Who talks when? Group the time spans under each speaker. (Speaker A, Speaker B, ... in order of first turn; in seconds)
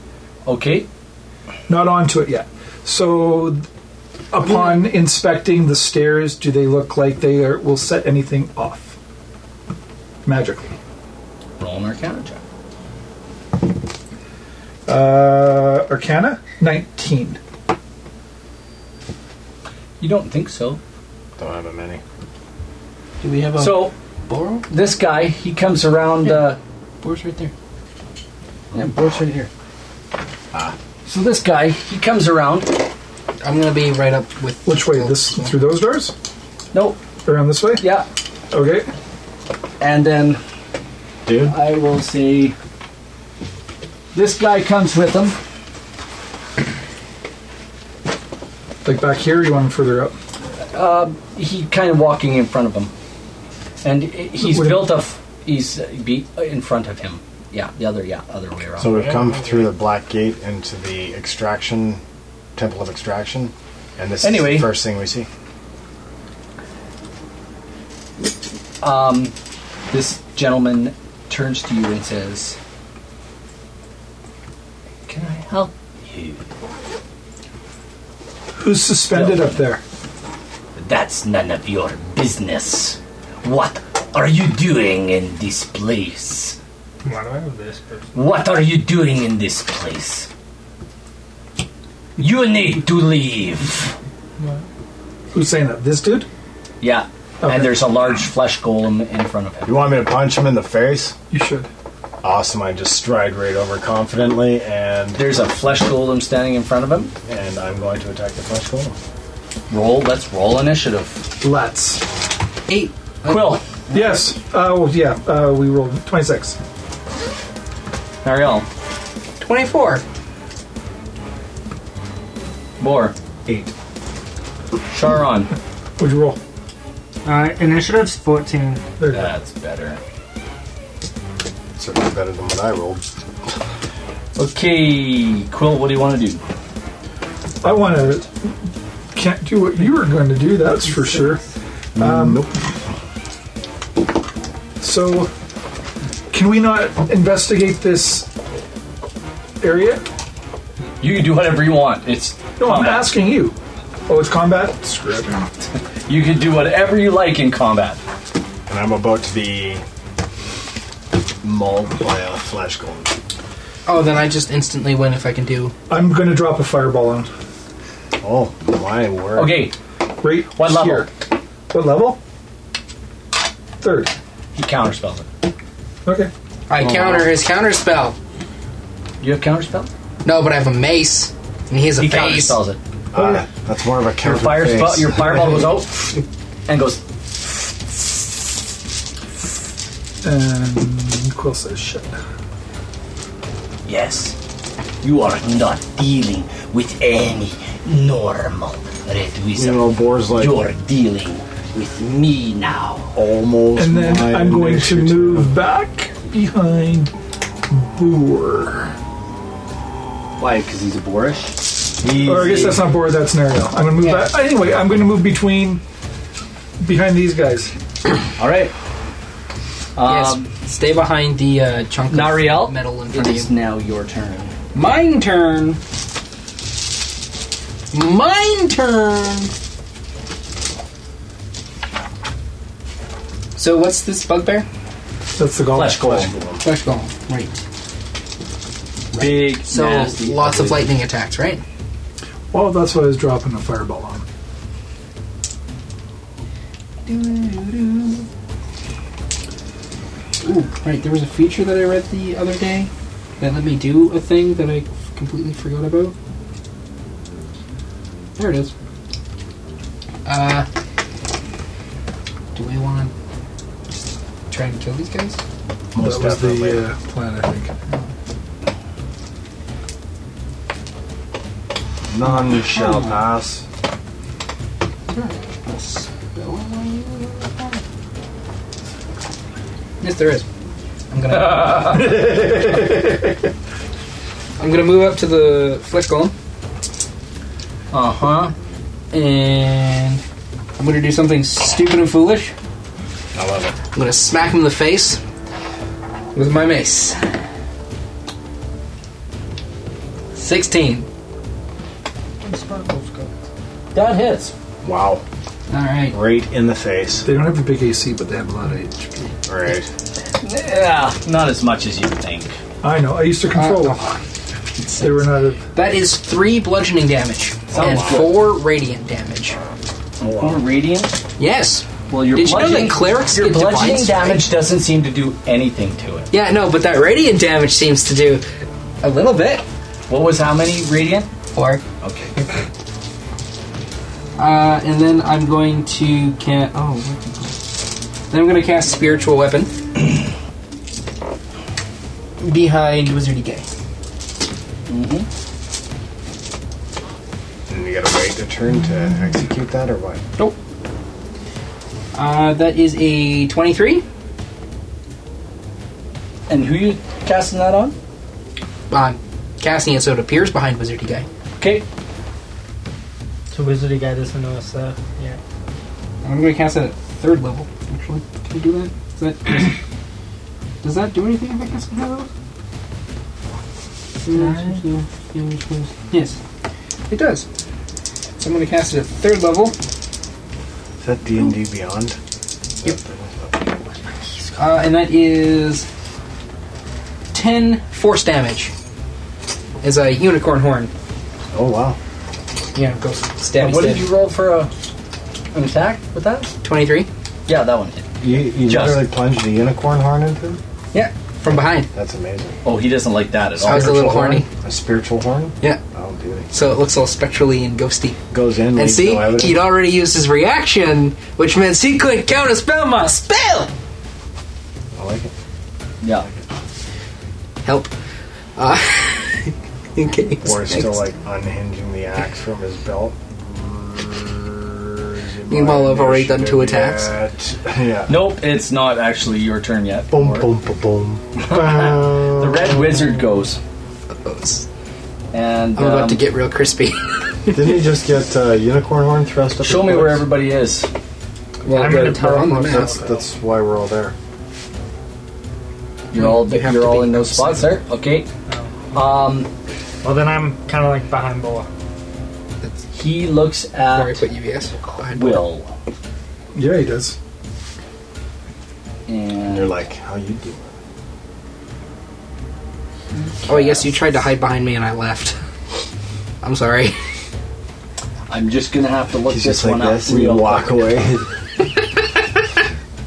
Speaker A: 0.4-0.9, 11.6-12.4, 20.0-20.8, 23.6-23.9, 24.7-26.6, 28.7-29.5, 31.1-32.8, 36.7-37.0, 37.8-38.1, 39.8-40.4, 41.4-42.5, 44.1-45.4, 50.7-52.9, 53.8-59.1, 64.2-64.7, 68.8-69.3, 69.9-72.6, 75.1-76.4, 79.1-79.6, 80.8-86.6, 88.1-90.3, 92.2-93.9, 96.8-99.8, 105.2-107.1, 109.7-111.3, 113.2-113.7, 118.2-118.7, 122.8-123.1, 124.9-125.5, 129.1-130.0, 134.3-136.4, 151.0-153.1, 156.1-158.0, 169.3-169.7, 170.5-171.1, 174.5-175.3, 176.8-177.2, 179.2-179.9, 182.0-182.8, 184.2-188.5, 193.8-194.4, 195.0-203.1, 210.4-211.6, 212.2-212.8, 218.4-218.7, 219.9-220.5, 222.1-224.5, 235.7-236.4, 239.1-240.9, 287.9-288.5, 303.9-304.5, 310.4-312.6, 317.7-318.4, 320.3-321.1, 322.1-326.3, 330.1-331.3, 332.0-332.3, 344.9-345.3, 356.5-357.9, 361.6-361.8, 393.6-394.7, 395.5-396.5, 397.5-399.1, 402.6-404.1, 416.0-416.3, 428.1-430.5, 431.4-433.6, 435.3-436.2, 439.6-440.9, 446.1-448.3, 448.9-449.5, 452.9-454.2, 455.0-455.7, 459.1-459.8, 463.2-464.0, 468.3-471.0
Speaker B: 1.7-3.6, 4.3-9.0, 10.2-10.7, 14.9-17.4, 34.6-36.1, 37.2-37.9, 38.5-38.9, 48.8-50.1, 54.4-55.0, 78.6-79.8, 95.3-96.3, 97.4-97.9, 101.3-101.7, 111.4-112.0, 113.9-116.6, 126.0-126.4, 129.0-129.3, 137.6-138.5, 139.1-141.4, 141.9-142.5, 144.8-145.3, 146.3-148.3, 149.6-150.0, 152.6-153.6, 154.1-155.5, 165.9-167.3, 170.2-172.2, 173.8-174.1, 176.0-176.3, 190.2-192.1, 203.8-207.1, 207.7-208.9, 212.2-215.8, 216.8-217.7, 235.3-236.3, 242.5-244.2, 266.0-268.0, 307.2-309.3, 312.8-314.0, 315.0-315.6, 456.5-457.2
Speaker C: 21.4-22.0, 41.2-41.5, 58.8-62.0, 62.5-65.3, 99.6-101.1, 102.2-105.3, 107.2-109.0, 123.5-123.7, 131.8-133.0, 141.9-142.6, 158.7-159.8, 161.4-163.1, 168.2-169.6, 176.8-177.2, 183.1-185.6, 199.6-200.6, 203.1-205.5, 212.0-212.8, 236.1-236.6, 265.9-266.9, 272.1-273.6, 293.3-293.8, 304.8-305.2, 306.1-307.3, 309.4-309.9, 317.8-318.2, 320.2-320.6, 347.7-350.2, 381.0-382.2, 382.8-383.6, 391.5-392.0, 398.2-400.6, 401.5-402.6, 403.6-406.5, 408.3-409.6, 414.9-415.3, 420.4-428.3, 430.1-433.1, 437.5-440.3, 442.6-444.1, 459.5-460.7, 469.3-471.3
Speaker D: 23.2-24.6, 27.0-27.5, 33.4-35.5, 112.7-114.0, 119.4-120.0, 163.8-165.7, 176.7-178.2, 180.2-182.6, 214.0-214.3, 220.1-223.5, 224.7-225.8, 227.9-229.5, 233.5-234.7, 236.6-237.6, 239.1-241.6, 247.0-248.3, 250.4-256.1, 258.4-258.7, 260.2-260.6, 262.5-263.1, 264.5-265.4, 272.3-273.2, 275.1-277.8, 280.0-280.4, 281.1-282.9, 284.6-286.3, 289.1-290.2, 290.8-292.5, 293.9-295.2, 296.3-297.2, 300.3-301.1, 305.7-306.2, 313.5-314.2, 314.8-319.6, 321.4-324.4, 326.3-328.4, 329.0-329.6, 331.5-331.8, 334.4-337.7, 338.3-339.7, 342.4-343.7, 352.1-354.0, 358.9-361.3, 366.2-369.8, 370.8-372.3, 374.2-376.4, 377.1-377.4, 378.4-379.7, 384.5-385.9, 387.3-388.7, 389.8-390.9, 392.7-394.1, 396.6-397.1, 400.9-401.9, 403.6-404.5, 406.5-408.2, 408.7-413.7, 417.6-417.9, 418.6-421.0, 425.5-427.1, 434.2-434.6, 435.8-437.8, 441.6-443.0, 446.1-447.8, 453.9-455.4, 463.4-465.4, 466.4-467.0
Speaker E: 87.0-88.1, 127.2-128.8, 302.4-303.3, 363.5-365.4, 374.3-374.8, 441.7-443.1, 448.5-448.9, 450.0-451.7